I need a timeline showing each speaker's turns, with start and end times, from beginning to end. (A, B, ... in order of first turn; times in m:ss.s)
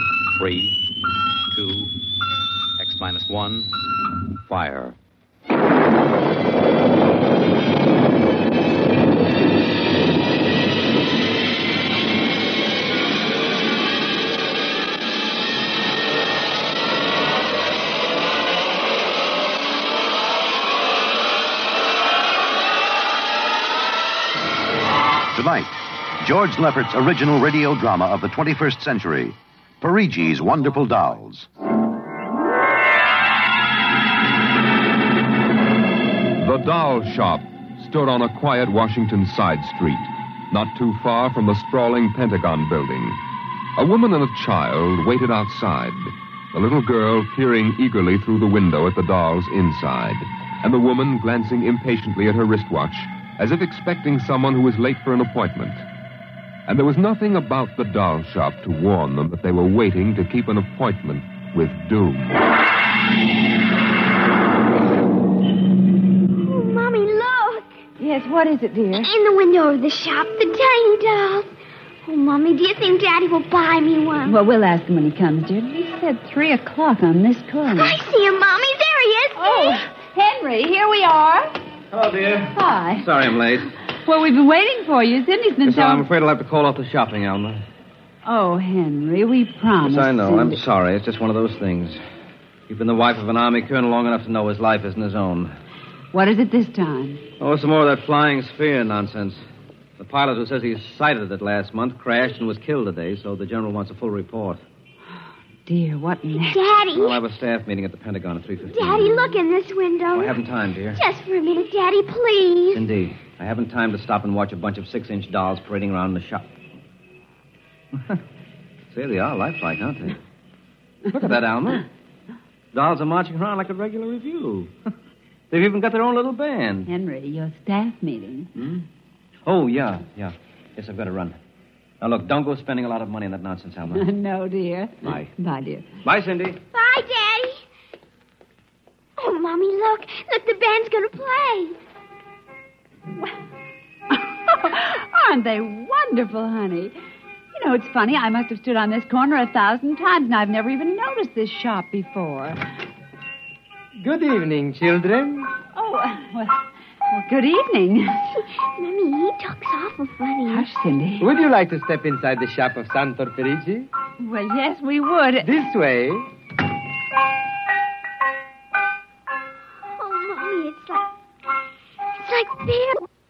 0:00.3-0:00.8 A
0:01.5-0:01.9 A
0:02.8-0:03.7 A
0:04.4-0:05.0 A
0:25.3-0:31.5 B
0:36.4-0:43.2 C
0:43.8-0:55.8 C
0:56.7-1:02.4 C
1:06.4-1:07.8 D
1:08.0-1:09.1 E
1:09.0-1:11.5 D
1:12.0-1:14.4 D
1:14.2-1:18.0 E
1:17.7-1:19.8 D
1:19.4-1:21.6 E
1:21.9-1:23.7 F
1:22.5-1:23.1 E
1:24.0-1:26.0 E
1:25.6-1:27.6 F
1:28.2-1:30.6 E
1:29.8-1:32.0 F
1:32.7-1:35.5 F
1:36.1-1:37.2 E
1:37.4-1:39.4 F
1:40.0-1:44.6 F
1:45.6-1:46.6 E
1:46.5-1:47.2 D
1:46.9-1:49.4 F
1:48.7-1:50.4 D
1:50.1-1:51.0 F
1:50.9-1:52.8 D
1:52.7-1:56.5 F
1:58.9-2:00.2 F
2:01.1-2:01.9 F
2:02.7-2:04.7 F
2:05.5-2:06.9 F
2:06.9-2:08.5 E
2:08.6-2:08.8 F
2:09.4-2:11.4 F
2:12.0-2:14.0 F
2:13.9-2:15.9 E
2:15.0-2:15.3 F
2:16.0-2:16.6 F
2:16.7-2:17.6 D
2:19.2-2:21.8 D
2:24.1-2:27.0 E
2:27.5-2:32.6 E
2:34.0-2:35.5 G
2:35.7-2:38.3 E
2:38.3-2:40.7 D
2:40.5-2:41.3 E
2:41.2-2:43.9 G
2:44.2-2:45.5 E
2:45.4-2:46.3 G
2:49.8-2:51.1 D
2:52.2-2:53.0 D